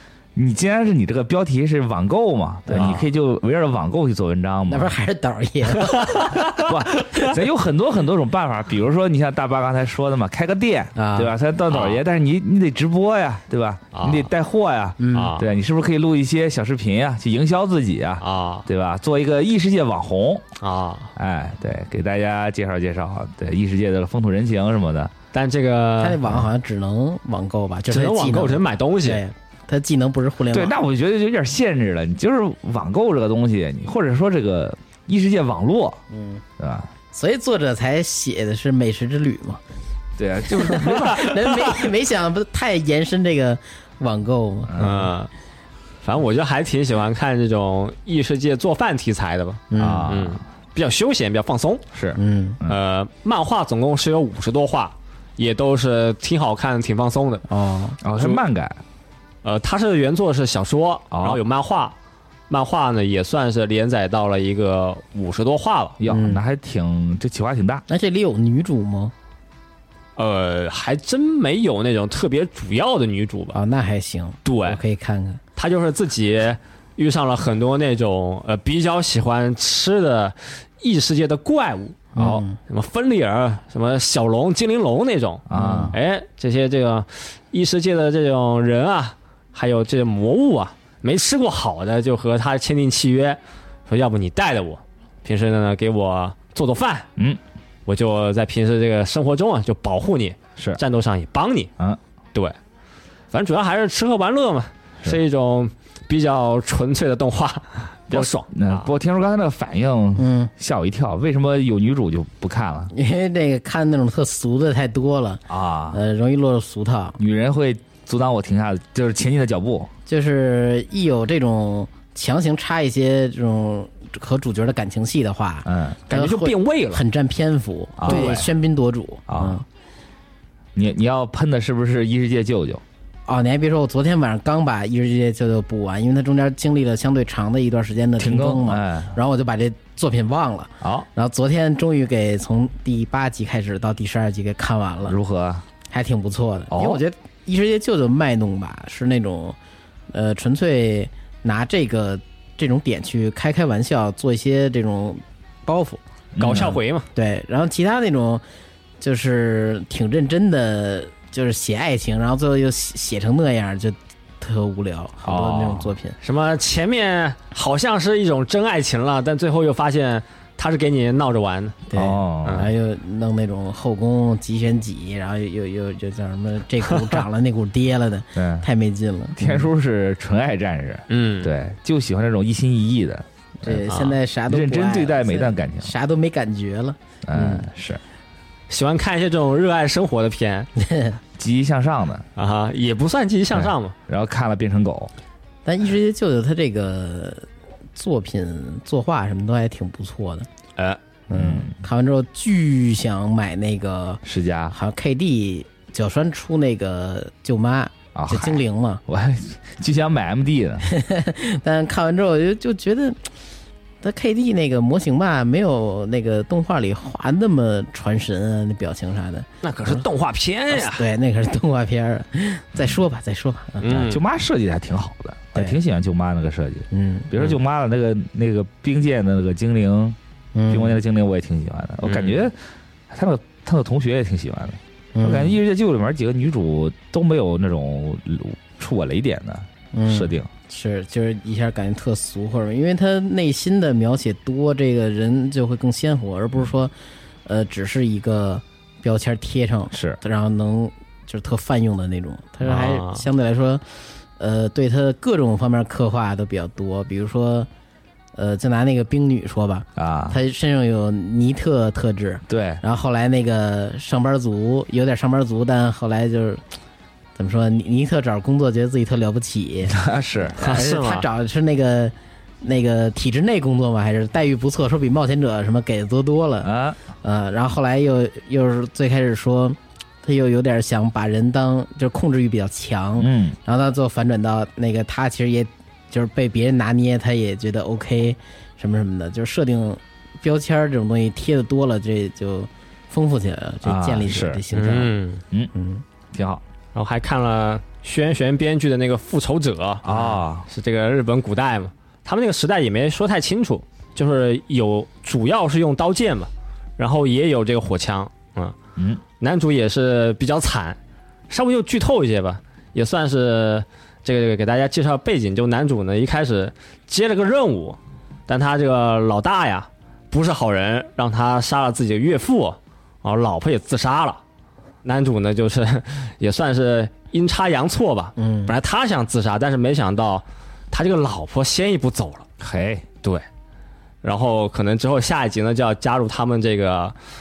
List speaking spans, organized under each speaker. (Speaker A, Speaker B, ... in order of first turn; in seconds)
Speaker A: 0.3-4.9, 6.5-20.4, 21.2-25.1, 30.5-36.0, 36.6-36.9, 40.2-41.5, 44.7-45.1, 49.8-50.4, 51.9-52.8, 58.0-58.8, 61.1-61.4, 66.0-67.8, 82.2-82.4, 85.5-86.0, 108.1-112.9, 115.5-116.0, 117.2-119.9, 125.7-126.0, 128.0-128.5, 129.3-129.6, 130.8-132.8, 138.2-139.2, 140.8-141.1, 145.1-145.6, 146.7-147.0, 156.3-156.8, 165.2-165.9, 171.9-172.7, 178.4-178.7, 179.4-185.9, 187.3-188.0, 191.4-192.2, 193.5-195.1, 201.3-201.8, 204.2-204.8, 208.2-210.8, 223.9-230.2, 230.7-232.6, 233.1-240.5, 249.9-250.2, 260.0-260.4, 262.5-262.8, 269.9-270.6, 276.6-277.0, 283.2-283.6, 293.9-294.6, 296.3-296.6, 300.0-300.7, 309.0-309.2, 332.6-333.1
Speaker B: 2.7-3.0, 4.7-6.4, 11.0-11.3, 15.0-15.3, 26.0-30.8, 36.1-36.4, 37.1-39.6, 40.6-44.9, 49.7-50.1, 52.2-52.6, 57.5-58.0, 66.1-66.4, 67.9-69.1, 73.5-75.4, 82.2-82.6, 85.5-86.0, 110.2-110.5, 112.9-117.2, 120.1-129.7, 133.3-145.2, 145.9-149.6, 150.1-156.0, 156.6-158.4, 159.0-166.2, 171.9-179.7, 183.6-187.7, 190.8-191.2, 195.7-200.5, 201.3-209.0, 210.8-213.2, 214.0-220.0, 220.7-223.9, 226.9-227.3, 230.6-231.0, 235.2-235.6, 239.9-246.9, 247.5-253.8, 254.4-257.7, 258.4-266.6, 267.4-270.0, 270.6-276.7, 277.2-295.1, 295.7-296.0, 328.4-328.7
Speaker C: 6.0-6.5, 11.7-12.0, 13.9-14.3, 15.1-15.5, 18.2-18.7, 20.6-21.1, 25.3-26.2, 27.9-29.2, 44.8-45.3, 46.0-51.9, 52.7-57.5, 58.2-58.4, 59.4-62.0, 62.5-66.0, 70.2-73.6, 74.5-74.8, 75.6-97.1, 97.9-101.7, 103.3-108.9, 126.1-127.0, 128.1-128.4, 156.4-157.1, 166.2-171.8, 181.1-181.5, 183.9-184.2, 188.7-190.7, 192.4-193.9, 219.6-221.1, 223.8-224.2, 232.0-232.4, 252.6-253.2, 270.6-271.3, 294.7-295.4, 296.9-308.8, 309.4-311.0, 311.5-318.0, 318.5-324.4, 325.0-332.5, 334.2-337.1